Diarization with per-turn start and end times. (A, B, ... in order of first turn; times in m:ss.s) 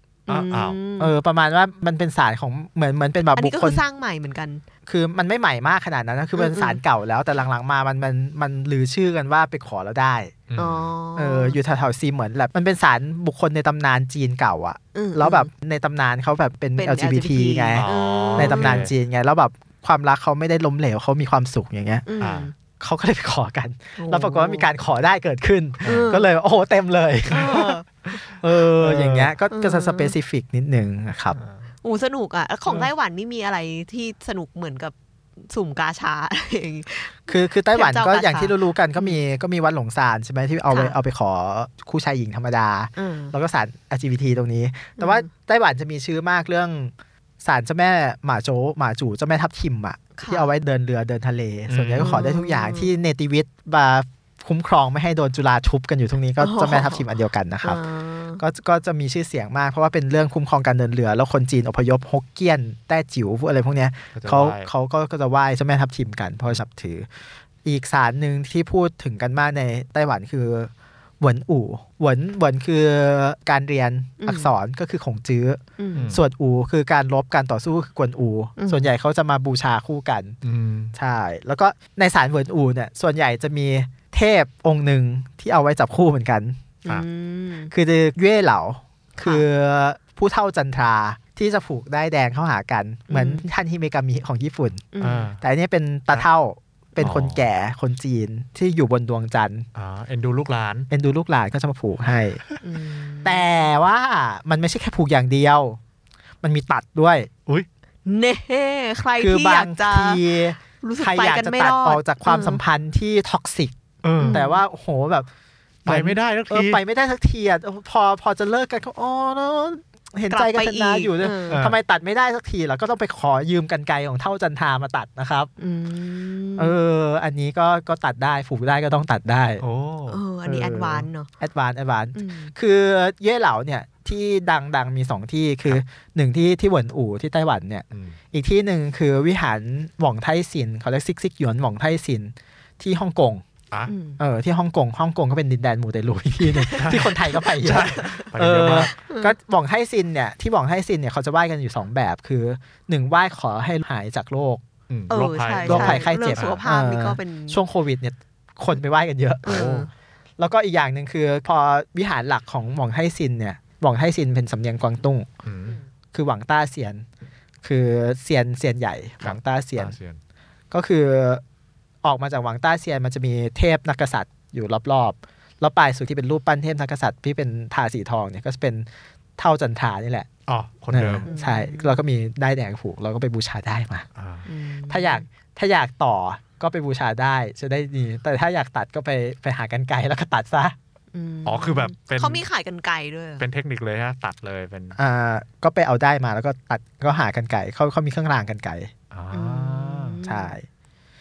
0:00.3-0:01.2 A
0:00.3-0:00.8 B
0:01.0-0:03.8 C
0:03.4-0:04.6 A
0:04.9-0:10.4 C
0:06.4-0:06.8 A
0:10.5-0:10.9 B
0:10.6-0:11.6 A
0:11.2-0:22.0 C
0:14.9-0:15.5 A
0:16.8-0:18.8 A
0:17.8-0:18.9 B
0:22.1-0:22.5 A
0:22.2-0:22.5 B
0:22.8-0:27.8 C
0:24.0-0:24.7 A
0:25.8-0:26.1 B
0:25.8-0:26.3 A
0:27.3-0:28.2 A
0:28.4-0:31.4 C
0:28.8-0:29.3 B
0:29.5-0:30.2 A
0:31.4-0:31.7 B
0:31.8-0:39.2 A
0:37.3-0:57.8 C
0:40.7-0:41.0 A
0:43.0-0:43.4 A
0:45.0-0:45.3 A
0:50.2-0:50.5 A
0:51.7-0:52.2 B
0:52.0-0:52.9 A
0:56.4-0:57.0 A
0:57.6-0:58.4 A
0:58.4-1:07.1 C
1:04.2-1:04.7 B
1:07.6-1:20.4 C
1:14.2-1:14.5 A
1:15.8-1:16.1 A
1:16.0-1:16.2 B
1:18.6-1:18.8 A
1:20.4-1:20.9 B
1:20.9-1:26.6 C
1:26.8-1:27.7 A
1:27.7-1:34.9 C
1:29.2-1:29.4 A
1:33.1-1:33.4 A
1:34.9-1:35.3 A
1:35.0-1:35.4 B
1:35.4-1:39.7 C
1:37.0-1:37.4 B
1:39.8-1:40.9 B
1:40.9-1:42.4 C
1:42.6-1:43.5 A
1:43.2-1:45.8 C
1:46.4-1:47.3 C
1:48.1-1:52.6 A
1:49.2-1:55.3 C
1:54.0-1:54.4 B
1:54.2-1:54.6 A
1:55.8-2:05.5 C
1:55.9-1:56.8 B
2:00.3-2:01.6 A
2:01.5-2:01.8 B
2:05.6-2:06.8 A
2:06.6-2:09.6 C
2:09.6-2:10.2 B
2:10.1-2:11.3 A
2:10.4-2:23.4 C
2:12.2-2:12.5 A
2:17.9-2:18.2 B
2:23.9-2:24.2 A
2:24.2-2:34.6 C
2:26.5-2:28.3 A
2:26.8-2:28.9 B
2:29.1-2:29.3 A
2:34.9-2:36.6 B
2:35.1-2:37.6 A
2:35.6-2:39.8 C
2:39.4-2:39.9 A
2:39.5-2:39.9 B
2:40.4-2:45.3 C
2:45.4-2:45.8 B
2:46.1-2:47.1 C
2:47.6-2:50.0 C
2:49.2-2:50.2 B
2:50.7-2:51.4 C
2:52.0-2:58.9 C
2:59.4-3:00.3 C
3:00.5-3:01.3 B
3:00.9-3:04.1 C
3:01.3-3:02.0 A
3:04.2-3:04.5 B
3:04.5-3:05.3 A
3:04.9-3:10.8 C
3:11.1-3:13.4 A
3:11.4-3:12.4 B
3:13.4-3:15.0 B
3:15.0-3:18.9 C
3:19.1-3:20.2 B
3:19.3-3:20.6 A
3:20.2-3:20.6 C